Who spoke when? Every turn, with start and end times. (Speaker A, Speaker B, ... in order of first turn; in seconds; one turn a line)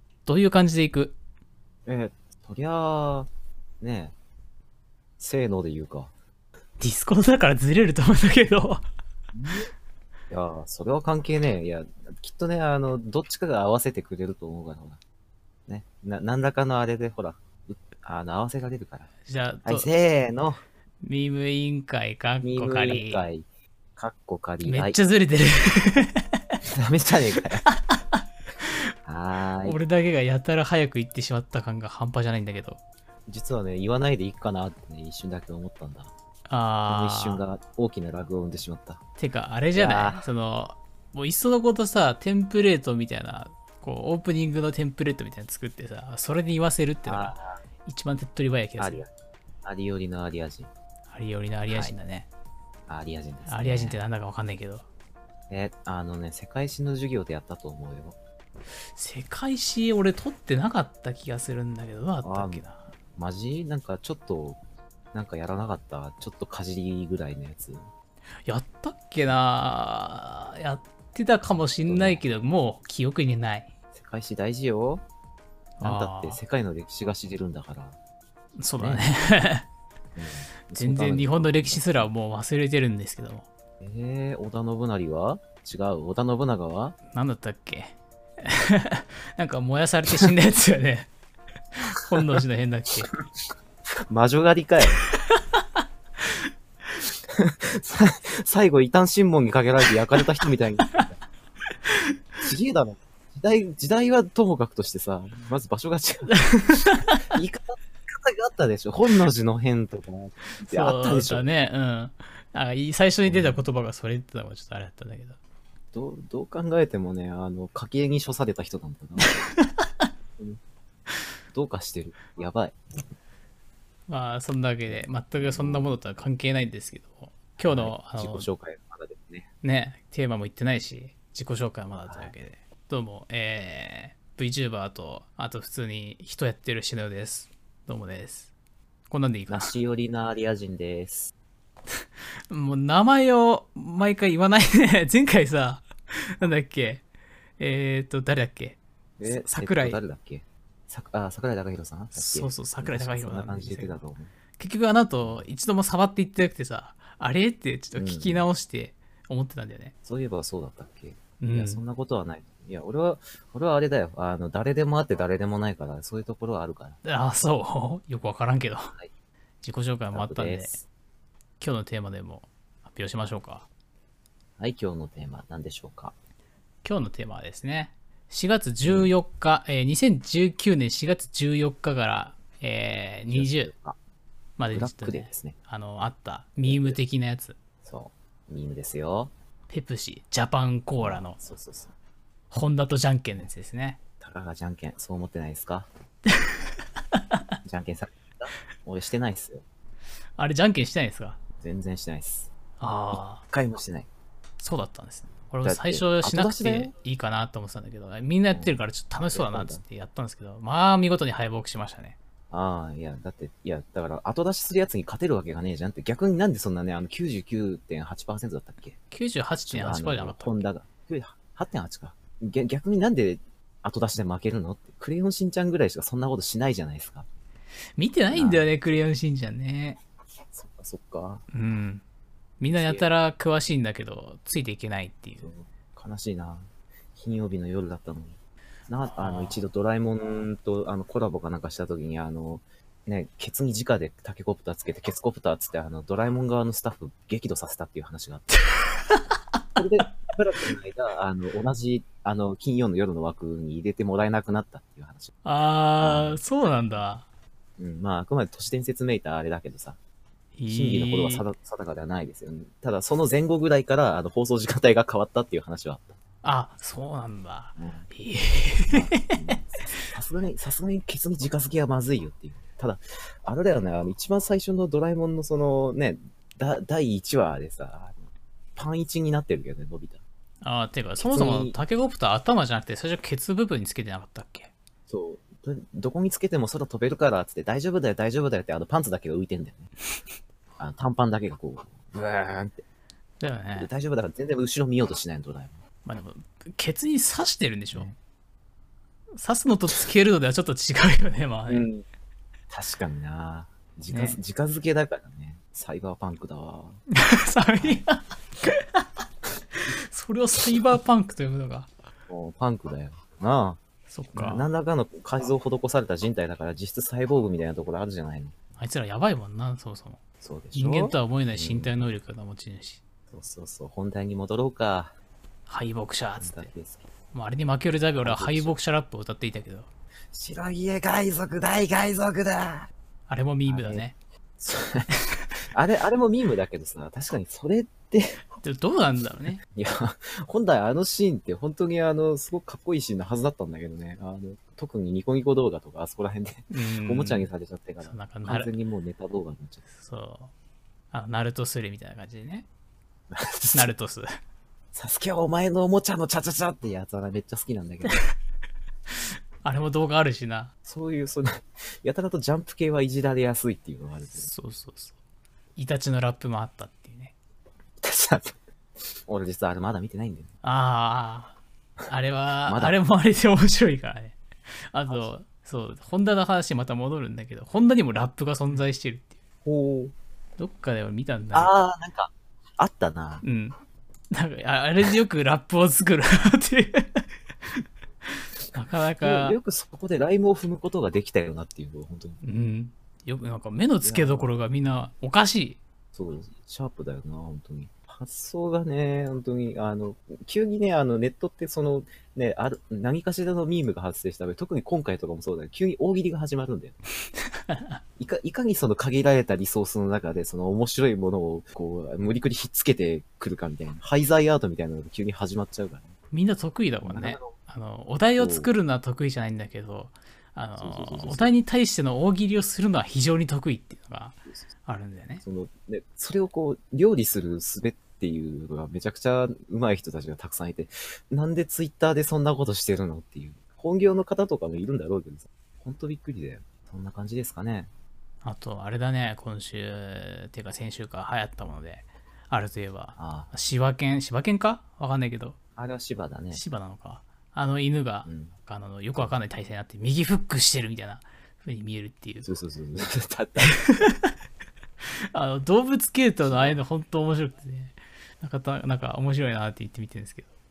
Speaker A: 0.2-1.2
Speaker B: 1.9-3.3
Speaker B: 3.8-4.1
Speaker B: 5.2-6.1
Speaker A: 6.8-8.8
Speaker B: 9.3-9.7
Speaker B: 10.3-15.0
Speaker B: 15.7-19.1
Speaker A: 19.2-19.9
Speaker B: 19.6-20.6
Speaker A: 21.0-23.2
Speaker B: 22.4-23.4
Speaker B: 24.0-25.0
Speaker A: 24.6-26.6
Speaker B: 26.6-27.6
Speaker A: 27.6-28.8
Speaker B: 29.1-29.8
Speaker A: 29.6-32.8
Speaker B: 33.3-36.1
Speaker A: 36.5-37.4
Speaker B: 36.9-39.0
Speaker A: 39.2-49.0
Speaker B: 39.7-40.2
Speaker B: 47.0-47.6
Speaker B: 48.8-49.1
Speaker B: 49.6-50.7
Speaker A: 51.1-52.3
Speaker B: 51.7-51.9
Speaker B: 52.9-54.0
Speaker A: 53.5-54.9
Speaker B: 55.5-58.2
Speaker A: 58.9-62.9
Speaker B: 62.2-64.6
Speaker B: 65.1-67.9
Speaker A: 68.5-73.7
Speaker B: 71.8-72.2
Speaker B: 73.9-75.0
Speaker A: 75.8-76.4
Speaker B: 75.8-78.0
Speaker A: 78.6-79.7
Speaker B: 78.8-79.0
Speaker B: 80.2-82.1
Speaker A: 80.7-83.5
Speaker B: 83.8-87.0
Speaker A: 87.1-91.1
Speaker A: 91.8-93.1
Speaker B: 94.1-95.0
Speaker A: 95.1-95.6
Speaker B: 97.3-101.2
Speaker A: 101.9-102.1
Speaker B: 102.4-111.5
Speaker A: 106.3-107.2
Speaker A: 110.6-115.3
Speaker B: 113.2-113.6
Speaker B: 115.9-119.4
Speaker A: 119.2-120.0
Speaker B: 121.5-122.7
Speaker A: 124.1-128.5
Speaker B: 124.8-125.9
Speaker B: 127.6-129.5
Speaker A: 129.6-138.5
Speaker B: 132.1-132.3
Speaker A: 139.1-139.7
Speaker B: 139.5-141.3
Speaker A: 142.0-147.0
Speaker A: 147.6-150.0
Speaker B: 149.2-154.3
Speaker A: 152.1-154.0
Speaker A: 154.6-159.9
Speaker B: 155.2-155.5
Speaker B: 157.9-158.5
Speaker B: 160.0-167.0
Speaker A: 161.4-161.8
Speaker A: 167.0-168.9
Speaker A: 169.6-170.8
Speaker B: 170.1-170.8
Speaker A: 171.6-173.7
Speaker B: 174.6-176.1
Speaker A: 176.8-183.7
Speaker B: 178.8-179.1
Speaker B: 183.3-184.0
Speaker A: 184.6-187.6
Speaker B: 184.7-185.6
Speaker B: 186.6-187.0
Speaker B: 187.8-189.3
Speaker A: 189.7-191.4
Speaker B: 191.0-191.9
Speaker A: 192.5-194.0
Speaker B: 194.2-195.9
Speaker A: 197.1-197.4
Speaker B: 197.6-199.6
Speaker A: 200.4-201.4
Speaker B: 201.6-202.5
Speaker A: 202.8-203.4
Speaker B: 203.1-204.1
Speaker A: 204.6-212.2
Speaker B: 205.6-206.9
Speaker B: 208.5-209.8
Speaker B: 212.5-219.0
Speaker A: 219.1-220.6
Speaker B: 219.7-227.2
Speaker A: 227.9-230.0
Speaker B: 228.3-228.7
Speaker B: 230.5-231.4
Speaker A: 231.5-232.0
Speaker A: 232.6-235.5
Speaker B: 232.7-233.1
Speaker B: 235.4-248.6
Speaker A: 239.2-239.6
Speaker A: 248.8-249.2
Speaker B: 249.8-255.3
Speaker A: 255.4-257.2
Speaker B: 256.0-256.4
Speaker B: 257.8-260.0
Speaker A: 260.5-261.4
Speaker B: 260.7-266.1
Speaker A: 266.4-270.1
Speaker B: 267.8-268.1
Speaker B: 268.9-280.2
Speaker A: 280.6-284.7
Speaker B: 281.1-281.8
Speaker B: 285.1-289.9
Speaker B: 290.8-292.8
Speaker A: 293.4-293.9
Speaker B: 293.7-295.8
Speaker A: 296.0-298.1
Speaker A: 299.3-301.9
Speaker B: 301.7-302.0
Speaker B: 302.7-307.0
Speaker A: 304.1-304.4
Speaker A: 307.1-309.0
Speaker B: 307.7-308.0
Speaker A: 309.9-311.9
Speaker B: 312.3-313.8
Speaker A: 314.1-314.6
Speaker B: 314.3-318.5
Speaker A: 318.8-320.2
Speaker B: 320.4-322.0
Speaker A: 320.7-323.0
Speaker B: 323.3-325.1
Speaker A: 325.7-326.7
Speaker B: 326.4-327.1
Speaker A: 327.3-329.9
Speaker B: 328.2-328.8
Speaker B: 330.3-332.9
Speaker A: 333.3-334.1
Speaker B: 333.7-334.1
Speaker B: 334.6-335.1
Speaker B: 335.7-338.4
Speaker A: 338.6-339.6
Speaker B: 339.7-349.9
Speaker A: 346.7-347.5
Speaker A: 348.0-348.7
Speaker A: 350.0-350.5
Speaker A: 351.1-352.7
Speaker B: 353.3-353.9
Speaker A: 353.7-354.4
Speaker B: 354.9-358.2
Speaker A: 359.1-360.7
Speaker B: 360.8-364.5
Speaker A: 364.4-365.1
Speaker A: 365.8-367.3
Speaker B: 368.0-368.6
Speaker B: 369.2-370.5
Speaker A: 370.6-371.6
Speaker A: 372.1-374.4
Speaker B: 372.7-372.9
Speaker A: 374.9-379.3
Speaker B: 379.6-380.1
Speaker A: 380.6-381.7
Speaker B: 381.5-383.4
Speaker A: 383.4-383.7
Speaker A: 384.3-389.6
Speaker B: 389.2-392.4
Speaker A: 392.4-395.8
Speaker B: 394.0-394.6
Speaker B: 396.1-407.0
Speaker A: 407.5-408.0
Speaker B: 408.2-416.1
Speaker A: 416.3-425.4
Speaker B: 417.0-417.6
Speaker B: 418.4-418.7
Speaker B: 420.8-421.5
Speaker B: 425.4-437.9
Speaker A: 438.4-445.6
Speaker B: 443.1-443.5
Speaker B: 445.8-446.6
Speaker A: 446.5-452.5
Speaker B: 448.2-448.5
Speaker B: 452.4-454.1
Speaker A: 453.6-454.3
Speaker A: 455.3-460.5
Speaker B: 456.4-456.8